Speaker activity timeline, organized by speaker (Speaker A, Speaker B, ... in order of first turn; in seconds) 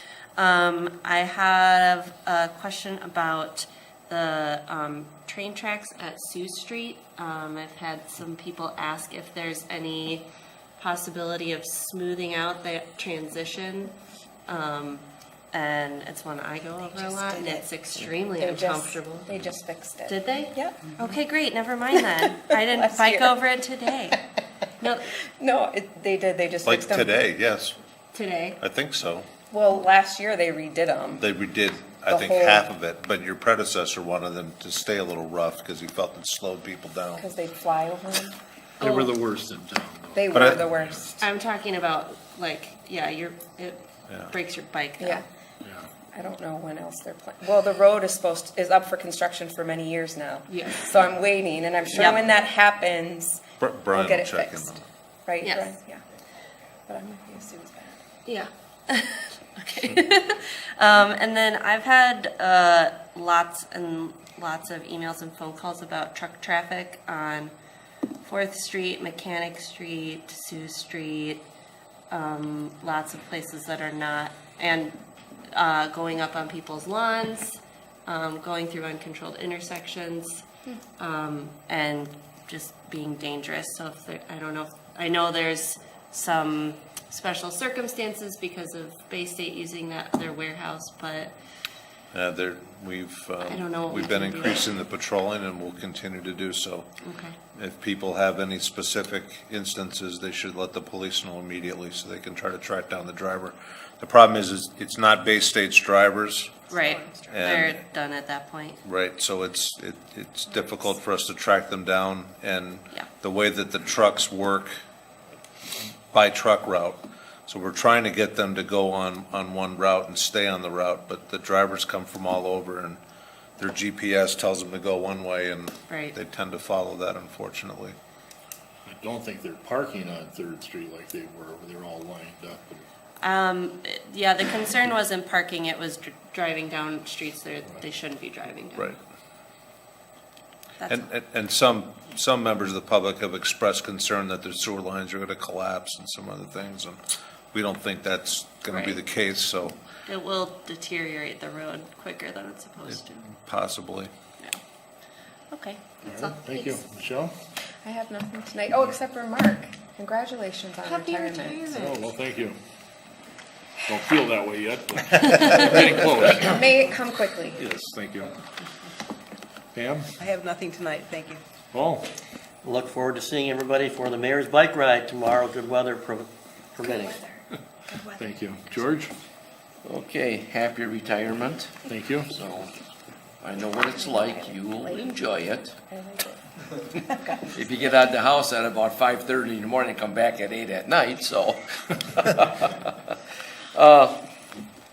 Speaker A: 0.4-10.3, 10.8-13.9, 14.5-19.3, 20.1-24.2, 24.8-25.1, 28.1-28.6, 38.8-39.1, 41.2-45.2, 50.5-50.9, 51.9-52.2, 55.4-55.7, 58.2-67.5, 68.2-71.5, 72.1-80.4, 81.0-91.3, 93.4-94.7, 97.0-97.3, 106.7-108.8, 125.9-126.2, 133.2-139.0, 140.8-141.1, 148.7-149.0, 150.1-153.3, 155.5-156.8
Speaker B: 17.0-17.6, 18.4-20.8, 22.2-23.3, 25.4-27.1, 29.5-31.2, 32.0-32.6, 37.2-38.4, 40.1-41.2, 46.1-56.0, 56.9-58.0, 106.7-107.6, 157.8-161.9, 166.4-167.6, 185.9-186.4, 187.0-187.4
Speaker C: 26.6-27.8, 28.6-29.3, 31.2-37.3, 40.3-40.6, 44.1-44.3, 53.6-54.8, 92.1-96.9, 97.5-106.6, 107.3-107.8, 108.8-114.8, 116.1-123.0, 123.6-127.9, 140.9-147.0, 147.5-149.8, 152.9-154.1
Speaker D: 38.8-41.0, 45.6-45.9, 128.8-132.9, 156.0-157.3, 161.8-162.6, 163.9-166.7, 167.5-168.4, 169.7-170.1, 171.7-172.1, 178.1-179.1, 181.8-182.3
Speaker E: 161.0-161.9, 170.2-171.4
Speaker F: 172.6-177.2
Speaker G: 179.8-182.7, 183.4-185.8, 187.5-192.9, 193.7-194.2